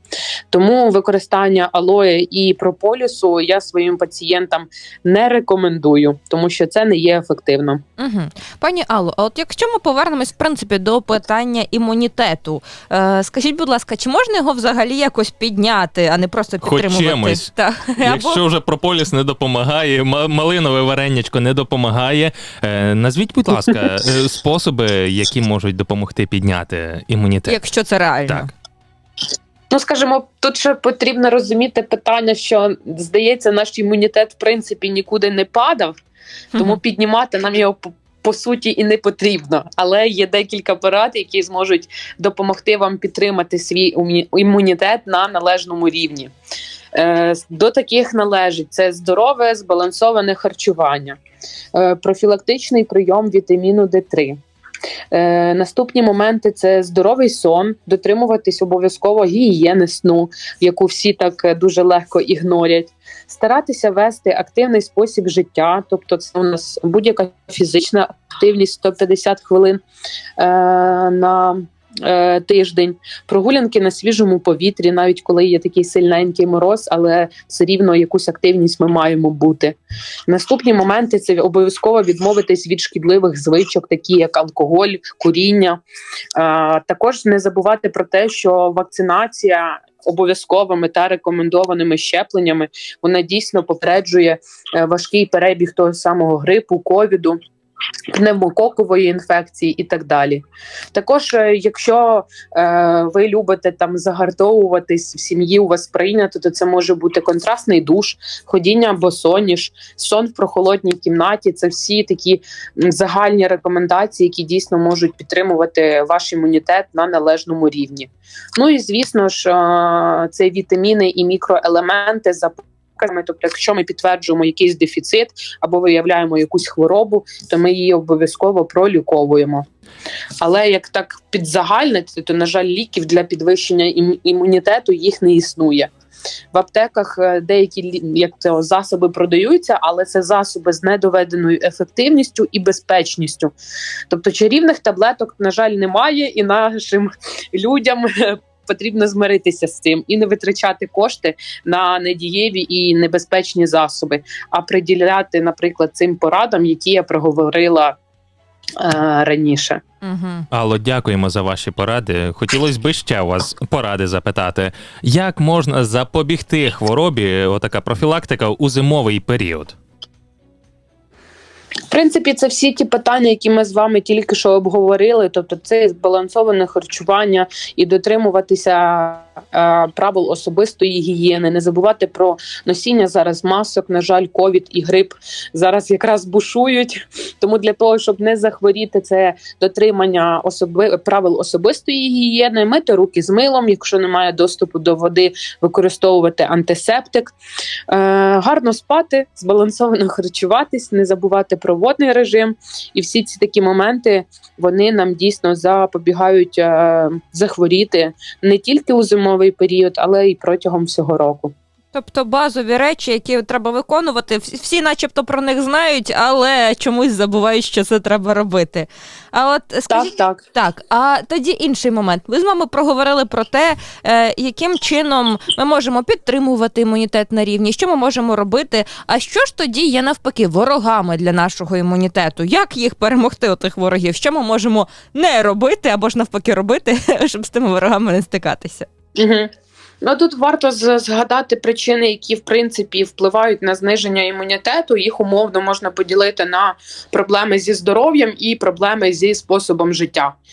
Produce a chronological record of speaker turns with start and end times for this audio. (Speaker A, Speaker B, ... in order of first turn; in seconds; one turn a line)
Speaker A: 0.5-7.8
Speaker B: 8.0-18.4
Speaker C: 16.6-17.5
Speaker C: 18.0-27.6
Speaker B: 27.4-28.5
Speaker A: 29.7-36.0
Speaker A: 36.6-46.3
Speaker A: 46.9-51.2
Speaker A: 51.7-54.4
Speaker A: 55.1-69.8
Speaker A: 70.4-79.8
Speaker A: 80.3-85.8
Speaker A: 86.3-97.4
Speaker A: 98.1-129.6
Speaker A: 130.4-135.9
Speaker A: 136.5-143.5
Speaker A: 144.1-158.0
Speaker A: 158.8-159.8
Speaker B: 160.0-160.4
Speaker C: 160.5-169.7
Speaker A: 171.9-197.3
Speaker A: 197.9-211.5
Speaker B: 211.9-238.9
Speaker A: 219.9-220.4
Speaker A: 239.2-239.5
Speaker A: 240.0-250.3